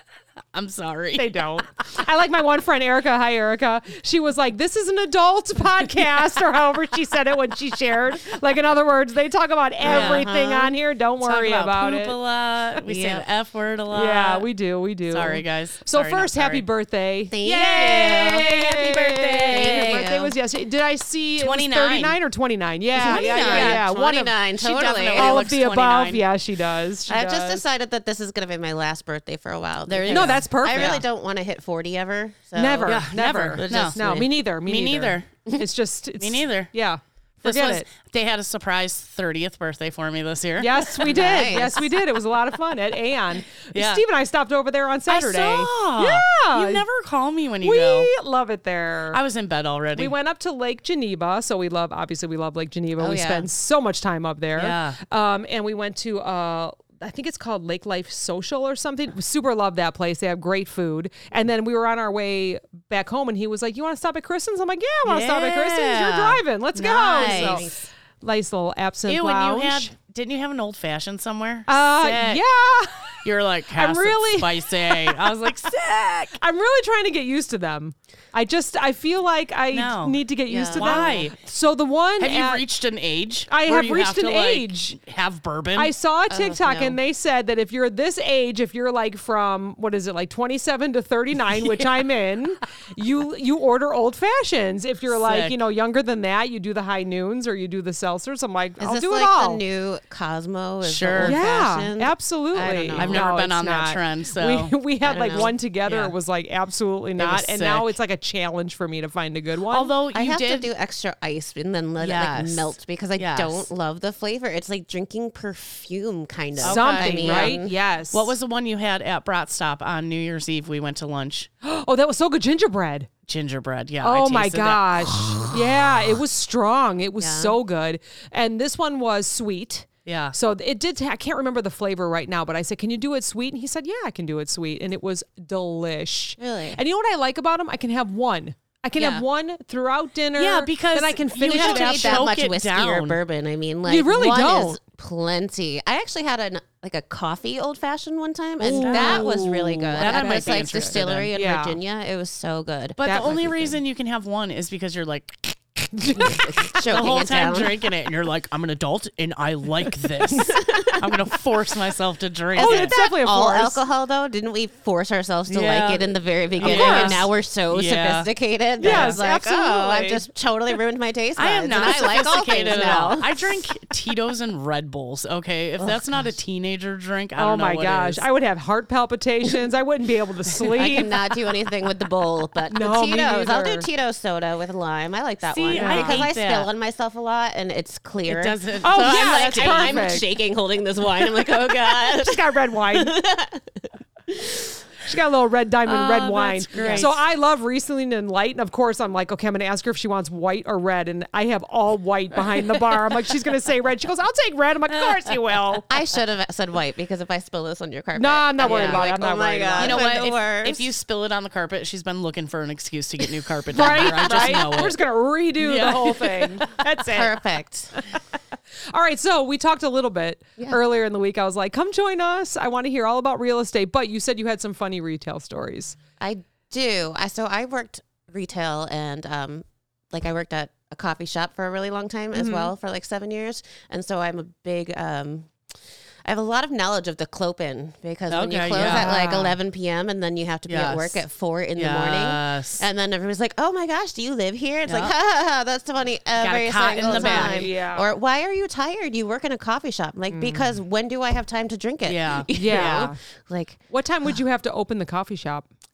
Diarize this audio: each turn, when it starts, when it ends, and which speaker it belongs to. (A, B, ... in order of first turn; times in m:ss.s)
0:00.5-0:01.5 A
0:01.2-0:12.2 B
0:09.8-0:10.8 C
0:09.8-0:10.3 A
0:11.2-0:14.5 A
0:12.8-0:13.2 C
0:13.9-0:24.4 B
0:15.1-0:16.6 A
0:17.3-0:18.4 C
0:17.4-0:20.1 A
0:19.4-0:20.4 C
0:21.4-0:22.2 A
0:23.0-0:25.4 C
0:23.0-0:23.9 A
0:24.6-0:26.2 A
0:25.2-0:27.6 B
0:27.1-0:34.3 C
0:29.9-0:31.0 A
0:30.1-0:31.0 B
0:32.6-0:37.9 B
0:32.8-0:35.5 A
0:36.2-0:36.7 A
0:37.4-0:41.2 A
0:40.6-0:46.9 B
0:41.1-0:41.9 C
0:43.7-0:44.0 A
0:45.1-0:48.1 A
0:47.6-0:49.2 B
0:49.1-0:50.1 A
0:50.0-1:09.9 B
0:53.0-0:53.5 C
0:54.6-0:55.0 A
1:05.0-1:07.7 A
1:07.1-1:07.9 C
1:09.1-1:12.4 A
1:11.7-1:15.5 B
1:13.2-1:16.4 A
1:16.4-1:22.6 B
1:19.7-1:21.4 A
1:20.5-1:21.2 C
1:22.2-1:25.9 A
1:23.5-1:25.0 B
1:25.8-1:39.6 B
1:26.3-1:27.0 C
1:31.5-1:31.9 A
1:35.2-1:35.6 A
1:38.8-1:43.3 C
1:40.8-1:41.4 A
1:41.2-1:49.9 B
1:43.0-1:44.7 A
1:45.0-1:45.6 C
1:45.9-1:46.2 A
1:47.2-1:47.9 A
1:49.7-1:50.7 A
1:50.1-1:57.7 C
1:52.0-1:53.7 A
1:56.6-2:01.5 A
1:56.6-1:58.3 B
2:01.6-2:03.1 B
2:03.3-2:05.5 A
2:04.0-2:22.3 B
2:07.2-2:07.6 C
2:10.0-2:10.4 A
2:16.4-2:16.8 C
2:19.0-2:19.2 A
2:20.3-2:23.2 A
2:21.5-2:33.8 C
2:23.9-2:24.8 B
2:28.6-2:31.8 B
2:28.6-2:31.3 A
2:33.0-2:42.9 A
2:33.0-2:33.4 B
2:36.1-2:37.9 C
2:40.4-2:41.2 C
2:42.6-2:53.4 C
2:42.6-2:43.8 B
2:45.5-2:48.3 A
2:46.6-2:47.3 B
2:48.8-2:50.2 B
2:48.8-2:49.2 A
2:51.4-2:58.2 A
2:55.8-2:56.1 C
2:57.4-3:01.1 B
3:00.7-3:14.7 C
3:02.7-3:03.9 B
3:05.5-3:06.7 A
3:05.7-3:06.2 B
3:08.3-3:10.2 A
3:08.8-3:10.2 B
3:11.9-3:13.1 B
3:15.0-3:25.9 B
3:15.8-3:17.2 A
3:16.7-3:17.1 C
3:25.9-3:30.9 C
3:28.2-3:30.0 B
3:28.6-3:29.1 A
3:29.8-3:35.0 A
3:33.7-3:37.4 B
3:35.6-3:36.6 A
3:37.1-3:38.0 C
3:38.9-3:46.0 B
3:46.2-3:55.5 C
3:52.3-3:52.7 B
3:56.2-4:13.8 C
3:58.3-3:59.1 A
3:58.8-3:59.6 B
4:00.7-4:01.2 A
4:01.8-4:02.8 A
4:04.9-4:05.1 A
4:06.4-4:07.7 A
4:07.0-4:08.1 B
4:10.3-4:10.7 B
4:12.0-4:13.1 A
4:12.5-4:13.2 B
4:13.9-4:15.7 B